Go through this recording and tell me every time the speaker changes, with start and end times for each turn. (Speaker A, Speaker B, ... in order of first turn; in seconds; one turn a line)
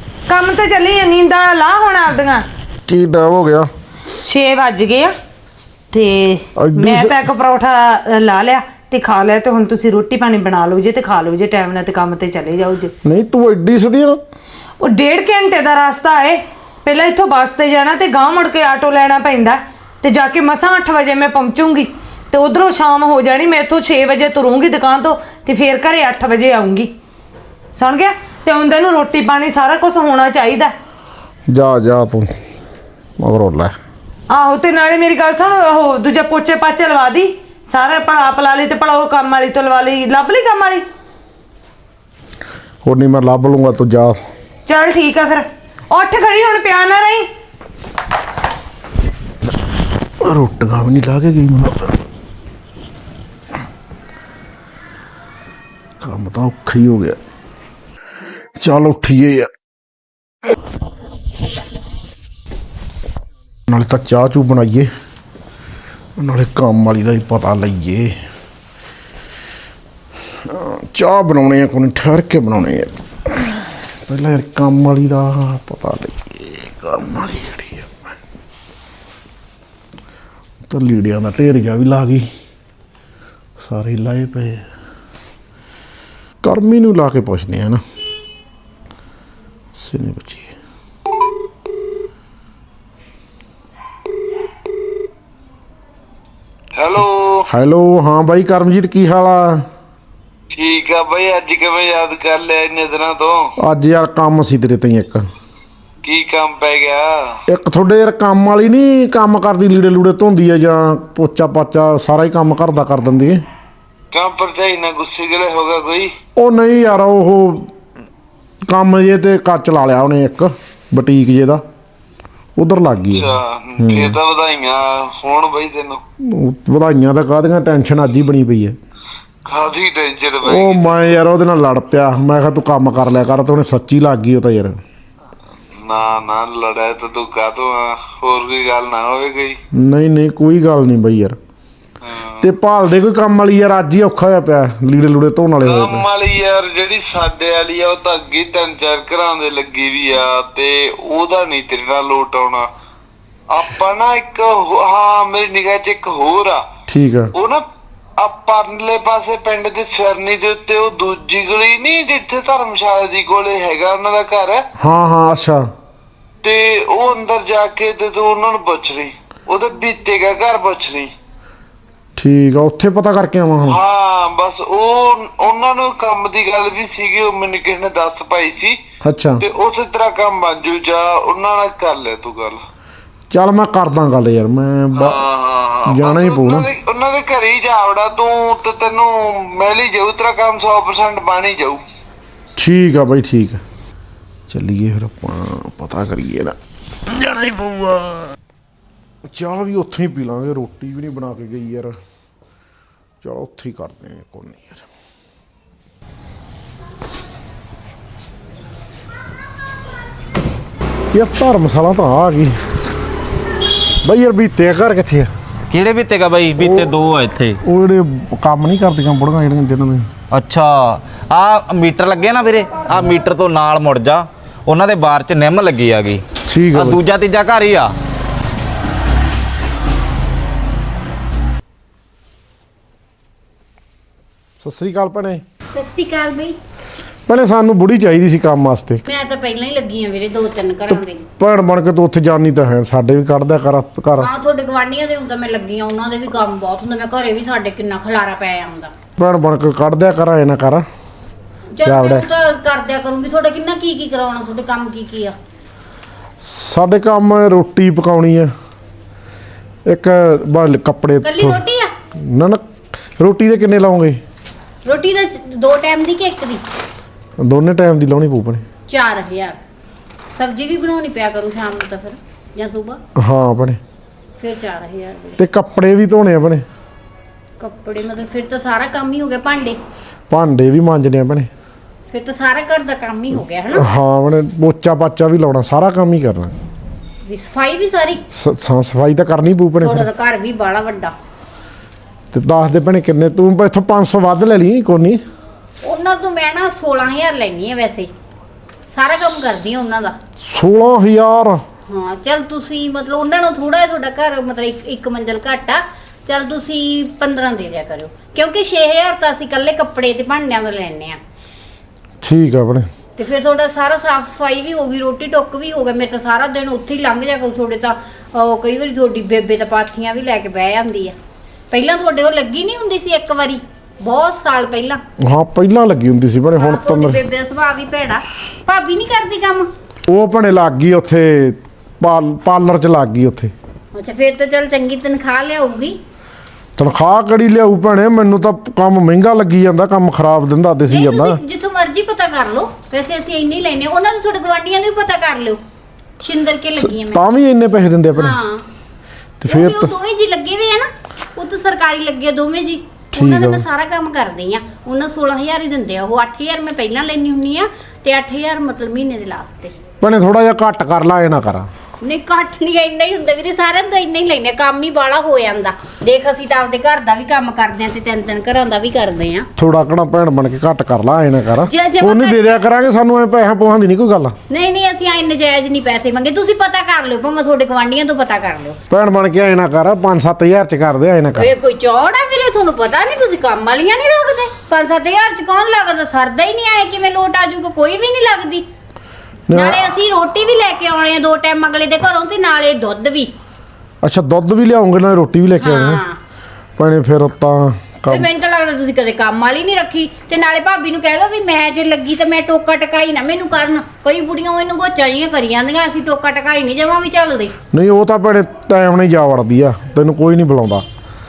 Speaker A: 0.3-2.4
Speaker B: 2.9-3.7
Speaker A: 4.2-5.1
Speaker A: 5.9-12.9
Speaker B: 6.6-7.2
Speaker B: 13.0-14.2
Speaker A: 14.8-26.9
Speaker A: 27.8-30.7
Speaker B: 31.5-32.3
Speaker B: 33.2-33.7
Speaker A: 34.3-40.8
Speaker B: 42.8-44.2
Speaker A: 44.7-47.2
Speaker B: 50.2-52.0
Speaker B: 56.0-57.2
Speaker B: 58.6-59.5
Speaker B: 63.7-64.9
Speaker B: 66.2-68.2
Speaker B: 70.5-78.1
Speaker B: 80.7-82.3
Speaker B: 83.6-84.7
Speaker B: 86.4-87.8
Speaker B: 89.8-90.5
Speaker C: 96.8-97.4
Speaker B: 97.5-99.6
Speaker C: 100.5-103.5
Speaker B: 103.6-105.2
Speaker C: 106.0-107.1
Speaker B: 107.5-113.4
Speaker C: 114.1-116.1
Speaker B: 116.4-117.7
Speaker B: 118.7-121.6
Speaker B: 122.6-124.2
Speaker C: 123.1-126.0
Speaker B: 126.2-128.7
Speaker C: 129.5-131.2
Speaker B: 130.4-134.8
Speaker C: 135.7-139.6
Speaker B: 139.7-141.4
Speaker C: 142.0-142.5
Speaker B: 142.4-146.1
Speaker C: 145.6-152.6
Speaker C: 153.5-156.6
Speaker B: 156.9-157.3
Speaker C: 157.3-157.6
Speaker C: 158.2-164.6
Speaker B: 164.8-165.6
Speaker C: 166.4-171.1
Speaker B: 172.2-173.8
Speaker C: 173.7-178.7
Speaker B: 179.0-179.4
Speaker C: 179.4-182.6
Speaker B: 183.3-185.2
Speaker C: 185.0-191.8
Speaker B: 185.9-186.7
Speaker B: 192.6-193.6
Speaker B: 194.5-198.3
Speaker B: 199.3-201.9
Speaker B: 203.2-204.8
Speaker B: 211.1-212.6
Speaker B: 214.0-215.3
Speaker D: 215.7-217.6
Speaker B: 216.6-216.9
Speaker B: 217.6-220.1
Speaker D: 220.3-227.9
Speaker B: 226.5-227.0
Speaker B: 234.6-235.4
Speaker E: 235.7-236.6
Speaker B: 237.3-239.0
Speaker E: 239.1-241.3
Speaker B: 241.4-244.3
Speaker E: 244.2-248.9
Speaker B: 249.2-250.8
Speaker E: 251.7-255.3
Speaker B: 251.8-252.2
Speaker B: 256.4-258.5
Speaker B: 259.9-261.6
Speaker E: 261.2-261.9
Speaker B: 262.2-262.6
Speaker B: 263.2-264.2
Speaker E: 264.8-266.6
Speaker B: 267.4-268.6
Speaker E: 268.9-269.6
Speaker E: 270.3-273.0
Speaker B: 273.1-273.8
Speaker E: 274.4-275.4
Speaker B: 275.4-276.6
Speaker E: 277.6-279.8
Speaker B: 280.3-281.5
Speaker E: 282.1-283.9
Speaker B: 283.7-286.5
Speaker E: 287.2-288.2
Speaker B: 288.3-290.1
Speaker E: 289.8-291.1
Speaker B: 292.3-295.2
Speaker E: 295.8-298.1
Speaker E: 298.9-300.1
Speaker B: 300.4-301.6
Speaker E: 301.9-311.2
Speaker B: 312.2-312.9
Speaker E: 313.2-321.1
Speaker E: 321.7-325.0
Speaker B: 325.2-327.2
Speaker E: 326.6-329.7
Speaker B: 330.1-333.5
Speaker E: 333.9-336.0
Speaker B: 336.8-341.4
Speaker E: 340.9-345.6
Speaker E: 346.2-347.2
Speaker B: 346.8-348.4
Speaker E: 348.2-348.6
Speaker B: 349.4-349.9
Speaker E: 349.5-359.8
Speaker B: 353.1-353.6
Speaker B: 360.0-361.7
Speaker E: 362.0-369.5
Speaker B: 369.6-374.3
Speaker E: 371.7-372.6
Speaker E: 374.5-378.8
Speaker B: 378.9-381.5
Speaker E: 381.4-388.6
Speaker B: 389.5-389.8
Speaker E: 389.5-393.3
Speaker B: 394.0-396.0
Speaker E: 395.6-396.2
Speaker B: 396.8-398.3
Speaker E: 398.1-407.5
Speaker B: 407.7-410.8